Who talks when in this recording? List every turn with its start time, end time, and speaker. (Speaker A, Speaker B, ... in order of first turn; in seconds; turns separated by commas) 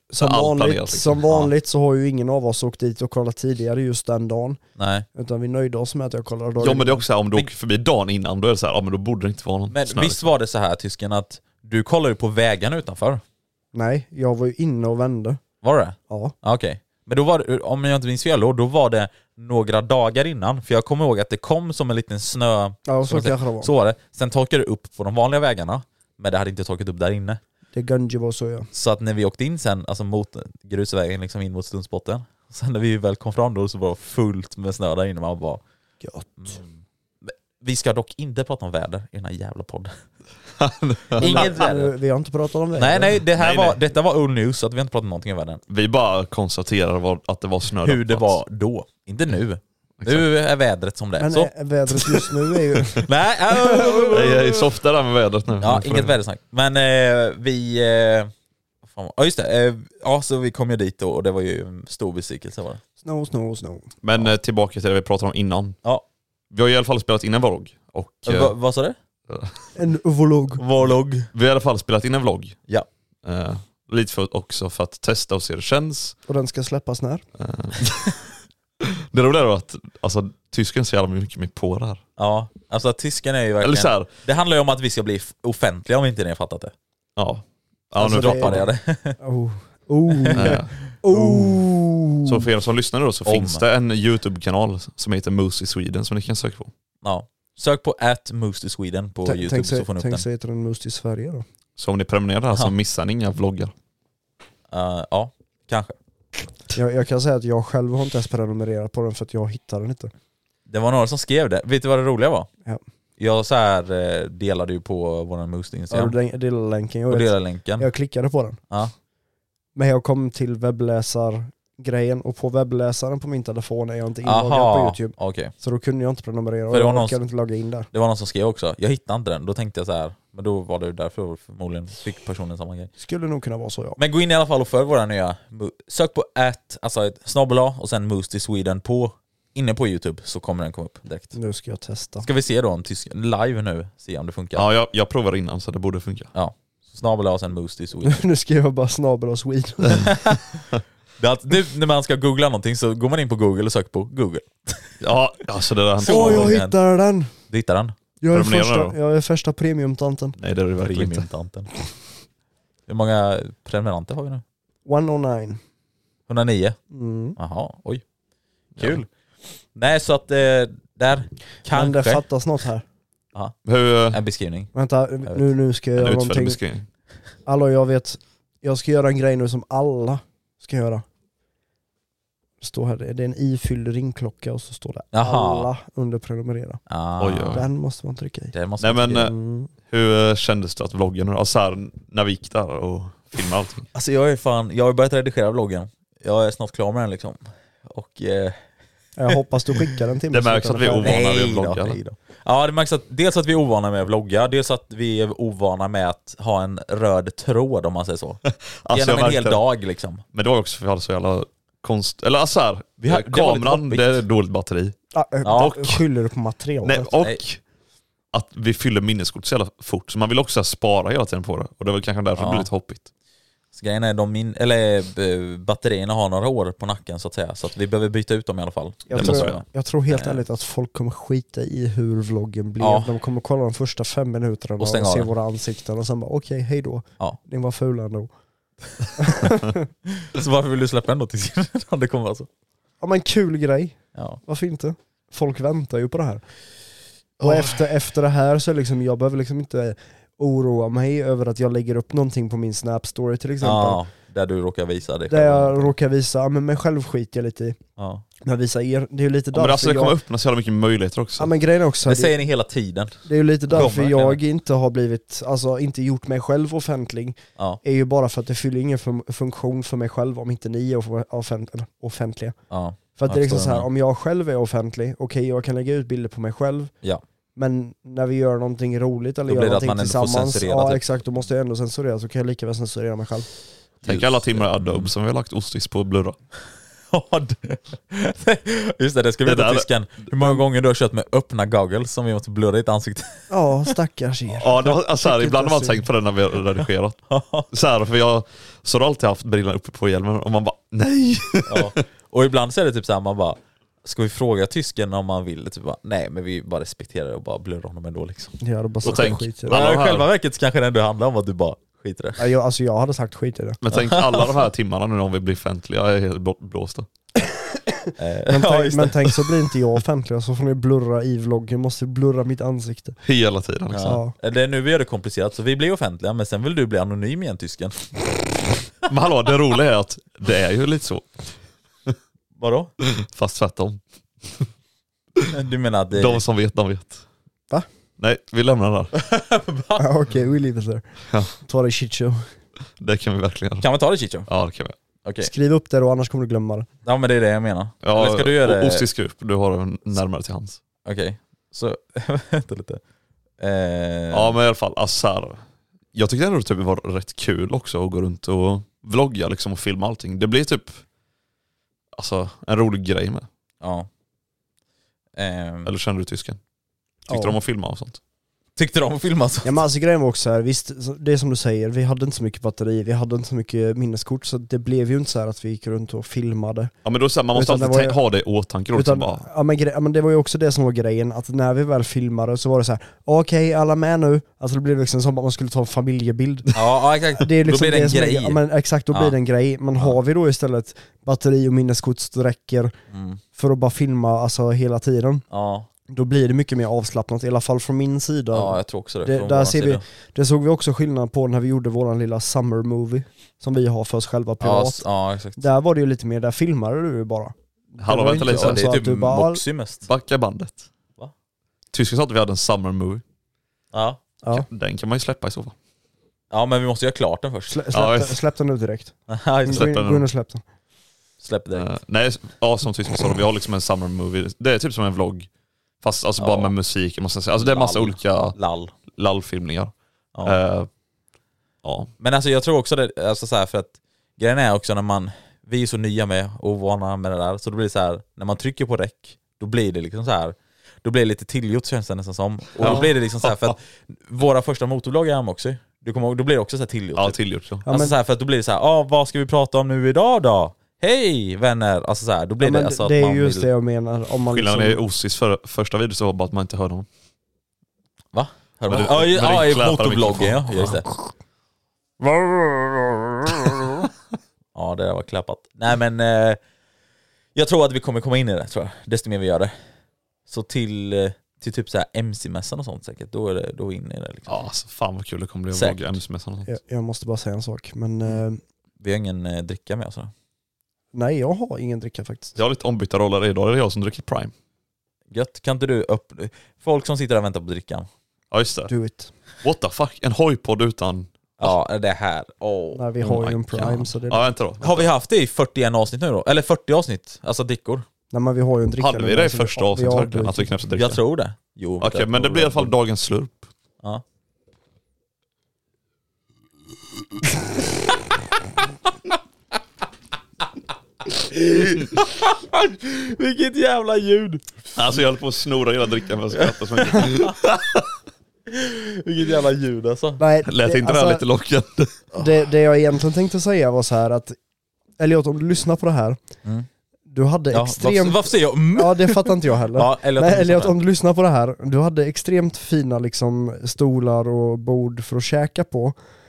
Speaker A: 0.1-4.6, Speaker B: 0.2-1.5, Speaker C: 4.8-5.0, Speaker A: 5.1-7.0, Speaker B: 6.6-10.2, Speaker C: 9.7-13.2, Speaker A: 13.7-15.4, Speaker C: 15.6-27.4, Speaker A: 16.1-16.3, Speaker A: 22.9-23.7, Speaker A: 27.7-28.7, Speaker C: 28.7-35.6, Speaker A: 36.0-36.5, Speaker C: 36.4-36.7, Speaker C: 37.2-39.9, Speaker B: 40.6-41.4, Speaker C: 41.1-41.9, Speaker A: 41.2-43.1, Speaker C: 42.8-45.6, Speaker B: 43.4-43.8, Speaker B: 45.7-48.4, Speaker C: 47.8-51.5, Speaker B: 50.0-50.3, Speaker A: 51.2-53.0, Speaker C: 53.0-54.4, Speaker A: 53.6-54.3, Speaker B: 54.1-56.1, Speaker C: 55.6-58.3, Speaker C: 58.9-62.8, Speaker A: 63.0-63.9, Speaker B: 64.0-65.8, Speaker B: 66.5-68.5, Speaker C: 68.2-69.0, Speaker B: 69.3-69.5, Speaker A: 69.8-70.6, Speaker C: 70.6-71.3, Speaker B: 71.3-72.6, Speaker B: 73.2-76.1, Speaker A: 76.3-77.2, Speaker B: 77.4-78.2, Speaker B: 79.1-82.0, Speaker C: 82.2-86.7, Speaker B: 83.6-84.1, Speaker B: 87.2-88.6, Speaker A: 88.0-88.6, Speaker C: 88.0-89.2, Speaker A: 89.2-92.3, Speaker C: 90.1-91.6, Speaker B: 90.3-90.7, Speaker B: 92.2-96.7, Speaker C: 93.2-93.6, Speaker C: 97.0-100.2, Speaker A: 99.2-101.4, Speaker B: 101.8-103.7, Speaker C: 104.7-105.9, Speaker A: 106.7-110.1, Speaker C: 110.7-112.5, Speaker C: 113.2-116.1, Speaker A: 115.9-118.6, Speaker C: 117.1-117.9, Speaker A: 119.7-127.9, Speaker C: 124.2-125.5, Speaker C: 126.7-127.2, Speaker C: 127.9-132.9, Speaker A: 133.0-134.0, Speaker C: 134.0-141.3, Speaker A: 141.3-142.3, Speaker C: 142.2-144.7, Speaker B: 144.6-146.3, Speaker C: 146.3-148.2, Speaker A: 148.0-150.1, Speaker C: 150.0-150.4, Speaker C: 151.2-155.0, Speaker B: 155.0-156.6, Speaker C: 156.0-156.7, Speaker A: 156.0-157.3, Speaker C: 157.5-157.9, Speaker A: 158.2-160.3, Speaker B: 158.3-158.9, Speaker B: 160.4-161.2, Speaker C: 160.8-161.7, Speaker C: 162.9-164.4, Speaker A: 164.8-165.6, Speaker C: 166.3-166.8, Speaker A: 166.9-167.4, Speaker C: 167.4-168.0, Speaker C: 168.8-169.1, Speaker C: 169.7-172.2, Speaker A: 171.7-172.8, Speaker B: 173.6-174.2, Speaker C: 174.1-174.7, Speaker A: 174.7-176.6, Speaker B: 175.9-176.9, Speaker A: 177.4-181.0, Speaker A: 182.6-186.8, Speaker C: 185.1-185.7, Speaker C: 186.9-187.6, Speaker B: 187.2-187.6, Speaker A: 187.5-188.5, Speaker C: 188.5-189.2, Speaker B: 188.8-189.3, Speaker A: 189.1-189.7, Speaker B: 189.8-193.8, Speaker C: 193.9-198.6, Speaker A: 199.2-201.2, Speaker B: 200.3-202.0, Speaker C: 201.0-210.2, Speaker B: 208.8-209.6, Speaker B: 210.3-214.9, Speaker C: 213.0-214.1, Speaker A: 215.1-217.1, Speaker C: 215.4-215.9, Speaker B: 215.5-216.0, Speaker B: 216.8-217.6, Speaker B: 218.3-223.1, Speaker C: 222.3-222.7, Speaker C: 223.7-230.4, Speaker A: 229.1-238.3, Speaker B: 229.1-229.6, Speaker C: 232.8-233.1, Speaker C: 234.8-235.3, Speaker A: 239.2-239.8, Speaker C: 240.2-242.5, Speaker A: 243.0-246.4, Speaker C: 244.1-244.4, Speaker C: 247.4-247.8, Speaker A: 247.4-254.0, Speaker C: 253.6-255.9, Speaker A: 255.3-257.8, Speaker C: 258.0-258.2, Speaker A: 258.4-260.1, Speaker B: 259.5-261.5, Speaker A: 261.4-262.3, Speaker C: 262.0-264.4, Speaker A: 263.2-272.6, Speaker B: 263.8-264.3, Speaker C: 272.7-273.9, Speaker A: 273.1-276.9, Speaker A: 277.6-283.5, Speaker C: 279.5-281.0, Speaker B: 284.0-286.4, Speaker C: 284.0-285.1, Speaker C: 287.1-293.5, Speaker B: 289.4-289.9, Speaker A: 293.5-296.0, Speaker B: 294.6-297.2, Speaker C: 297.3-297.7, Speaker B: 297.7-302.0, Speaker C: 301.7-312.4, Speaker A: 308.6-309.8, Speaker B: 309.0-310.3, Speaker A: 312.4-313.8, Speaker B: 313.8-317.1, Speaker C: 313.9-314.5, Speaker A: 317.4-323.1, Speaker C: 318.2-319.4, Speaker B: 323.2-324.2, Speaker C: 323.9-328.1, Speaker A: 324.0-324.3, Speaker B: 329.1-331.3, Speaker C: 332.6-332.9, Speaker B: 333.1-334.7, Speaker C: 335.5-336.4, Speaker B: 336.1-337.2, Speaker B: 338.2-339.1, Speaker C: 339.1-340.0, Speaker A: 340.0-341.0, Speaker A: 341.6-342.4, Speaker B: 343.0-343.9, Speaker C: 343.8-344.5, Speaker B: 344.5-344.9, Speaker C: 345.2-345.5, Speaker A: 345.4-346.9, Speaker C: 347.0-349.0, Speaker B: 348.0-350.8, Speaker C: 351.0-353.0, Speaker C: 353.6-354.6, Speaker B: 354.3-355.6, Speaker B: 356.1-361.0, Speaker B: 362.1-363.5, Speaker C: 363.8-364.1, Speaker C: 365.4-365.9, Speaker B: 365.9-366.6, Speaker B: 367.3-368.2, Speaker A: 367.3-367.6, Speaker C: 368.8-369.8, Speaker A: 369.6-376.9, Speaker B: 377.0-379.4, Speaker A: 377.5-378.2, Speaker A: 378.9-386.7, Speaker C: 386.7-388.6, Speaker A: 387.4-392.9, Speaker C: 393.1-393.4, Speaker A: 393.5-395.4, Speaker C: 395.5-395.9, Speaker A: 396.1-405.0, Speaker C: 398.5-400.0, Speaker C: 404.6-405.6, Speaker A: 405.6-409.6, Speaker B: 408.0-408.8, Speaker C: 408.3-410.1, Speaker B: 410.1-410.9, Speaker B: 411.9-413.2, Speaker C: 413.9-414.2, Speaker B: 414.6-415.7, Speaker C: 416.5-417.8, Speaker A: 417.7-419.1, Speaker B: 417.9-418.4, Speaker C: 419.3-419.9, Speaker A: 419.6-420.6, Speaker B: 419.7-420.3, Speaker C: 421.4-421.9, Speaker B: 421.7-425.5, Speaker B: 426.0-428.6, Speaker C: 426.4-426.7, Speaker C: 427.6-428.9, Speaker B: 429.1-430.9, Speaker B: 431.8-432.1, Speaker C: 432.2-453.7, Speaker B: 442.8-443.7, Speaker B: 447.2-447.8, Speaker A: 447.8-448.1, Speaker A: 452.6-455.0, Speaker B: 454.5-457.1, Speaker C: 458.3-461.1, Speaker B: 458.9-461.0, Speaker C: 464.7-466.6, Speaker C: 467.5-469.7, Speaker C: 470.5-474.6, Speaker B: 474.5-476.7, Speaker C: 475.7-476.0, Speaker A: 476.7-478.6, Speaker C: 479.0-480.3, Speaker A: 481.1-482.6, Speaker B: 482.6-484.5, Speaker C: 485.3-488.1, Speaker B: 488.5-488.9, Speaker A: 488.9-489.3, Speaker B: 489.6-491.3, Speaker C: 491.6-493.9, Speaker A: 492.9-494.5, Speaker B: 493.8-495.1, Speaker C: 494.8-498.0, Speaker A: 498.3-500.7, Speaker B: 499.0-501.2, Speaker C: 500.9-502.9, Speaker B: 502.0-503.7, Speaker C: 511.2-514.9, Speaker B: 515.0-518.0, Speaker C: 516.6-517.5, Speaker C: 518.7-520.4, Speaker A: 520.4-521.4, Speaker B: 520.7-522.2, Speaker A: 522.4-524.5, Speaker A: 525.2-526.4, Speaker A: 527.3-536.1, Speaker C: 527.7-531.0